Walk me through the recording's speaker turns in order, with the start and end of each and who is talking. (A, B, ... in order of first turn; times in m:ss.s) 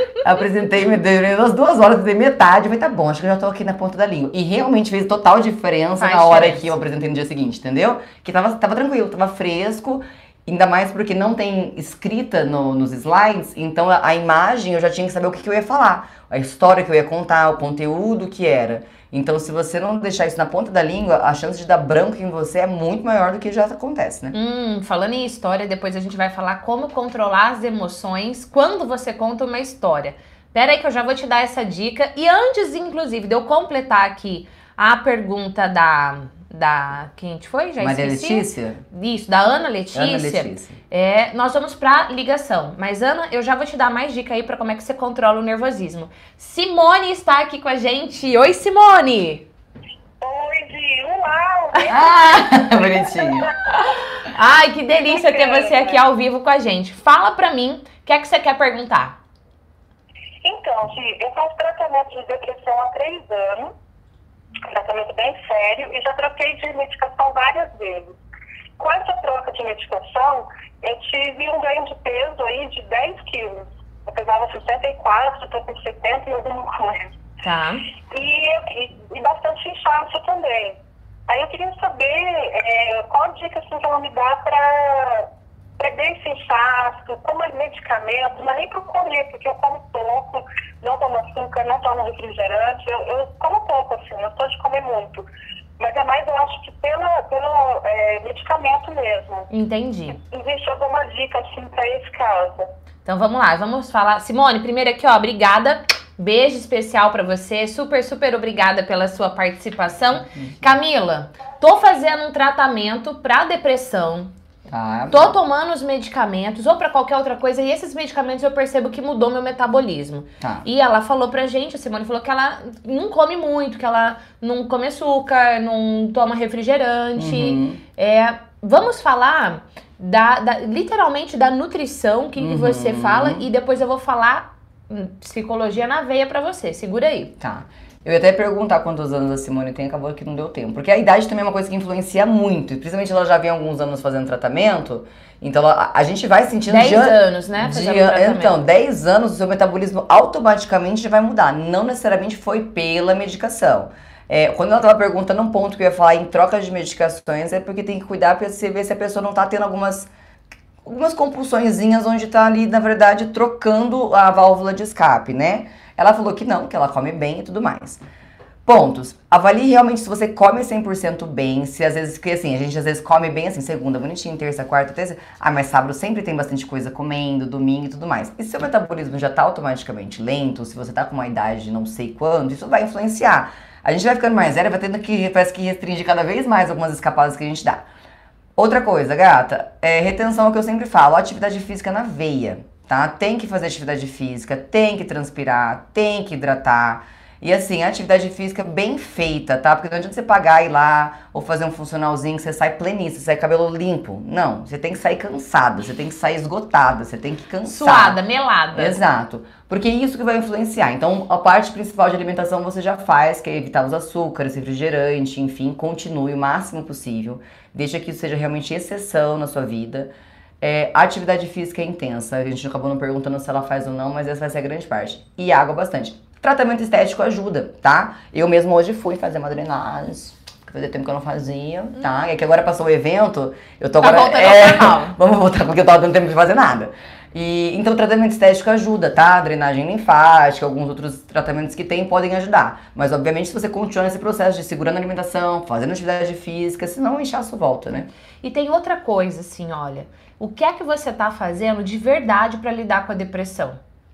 0:00.2-0:24.3 A
0:06.0-0:06.7 B
0:24.3-0:49.5 B
0:37.8-0:38.8 A
0:39.9-0:40.8 A
0:50.2-0:52.0 C
0:51.9-0:53.5 A
0:54.3-0:59.2 B
0:55.1-0:56.0 C
1:00.4-1:03.7 C
1:04.7-1:08.2 C
1:08.8-1:17.1 C
1:17.4-1:17.8 B
1:18.1-1:20.8 C
1:21.3-1:35.2 C
1:35.8-1:39.5 C
1:39.5-1:40.2 B
1:40.2-1:42.7 C
1:43.0-1:54.3 B
1:54.7-1:55.4 A
1:55.1-2:17.3 B
2:00.4-2:00.7 A
2:07.2-2:07.8 A
2:12.4-2:13.5 A
2:17.4-2:40.1 A
2:26.7-2:28.6 B
2:40.8-2:48.0 A
2:48.7-3:07.9 A
3:08.6-3:28.2 A
3:27.6-3:29.0 B
3:28.7-4:08.1 A
3:54.0-3:55.2 B
4:08.4-4:13.8 B